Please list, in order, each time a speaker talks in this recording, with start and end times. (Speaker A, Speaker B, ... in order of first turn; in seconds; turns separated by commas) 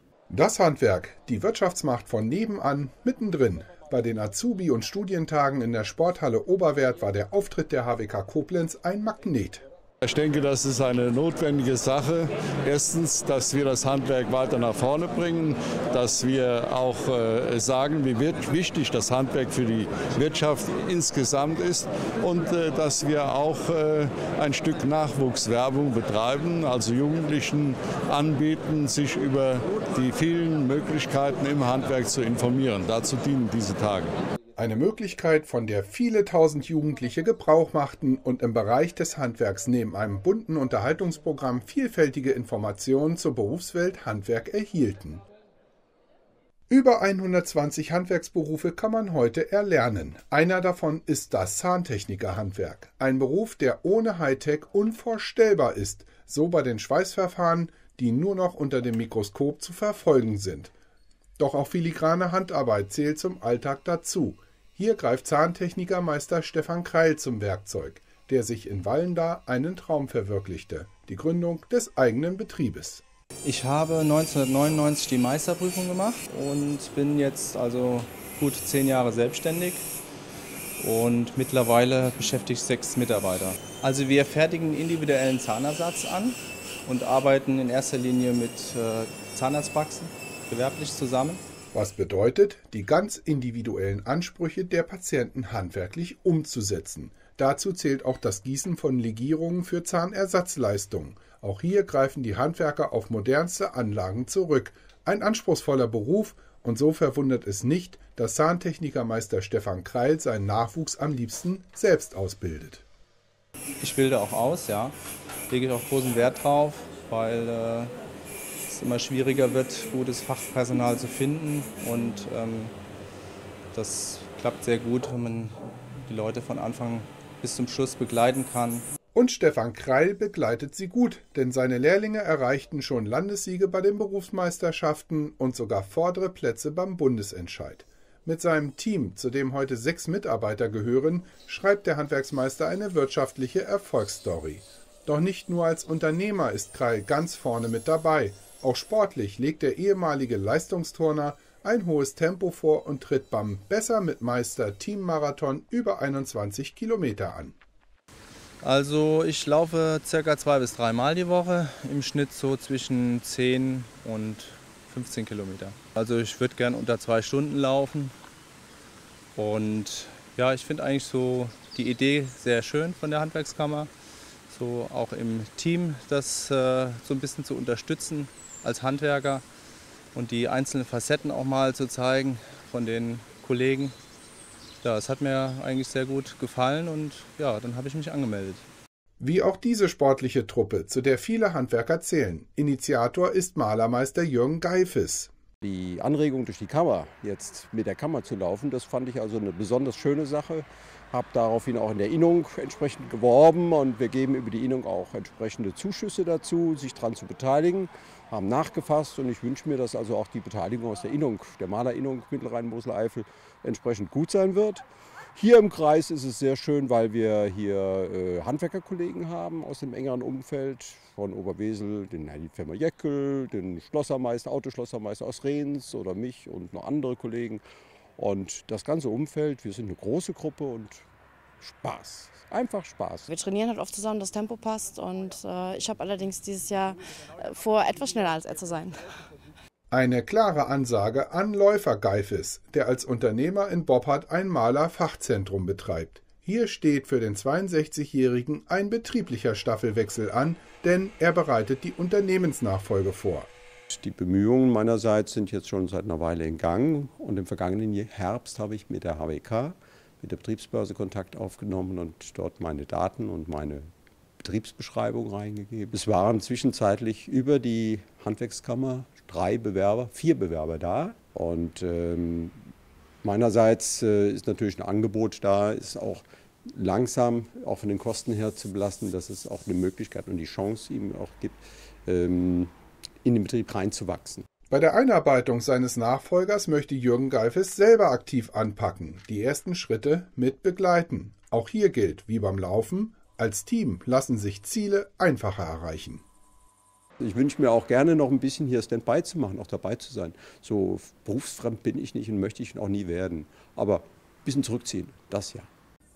Speaker A: 0.3-9.6, Speaker B: 10.0-34.1, Speaker A: 34.6-45.2, Speaker A: 46.7-60.7, Speaker A: 61.4-73.0, Speaker C: 73.4-79.8, Speaker C: 80.8-91.4, Speaker A: 91.7-112.8, Speaker C: 113.8-114.9, Speaker C: 115.5-117.9, Speaker C: 118.7-122.7, Speaker C: 123.7-128.8, Speaker A: 129.2-157.6, Speaker C: 158.6-168.1, Speaker C: 169.3-173.9, Speaker C: 174.5-179.4, Speaker C: 180.2-183.9, Speaker C: 184.8-188.7, Speaker A: 189.2-195.3, Speaker D: 195.6-214.8, Speaker D: 215.3-227.6, Speaker D: 228.2-231.0, Speaker D: 231.6-233.3, Speaker E: 233.3-239.0, Speaker A: 239.9-253.5, Speaker D: 253.9-263.9, Speaker D: 264.4-272.6, Speaker D: 273.2-282.7, Speaker D: 283.2-284.4, Speaker A: 284.7-296.2, Speaker D: 297.2-305.7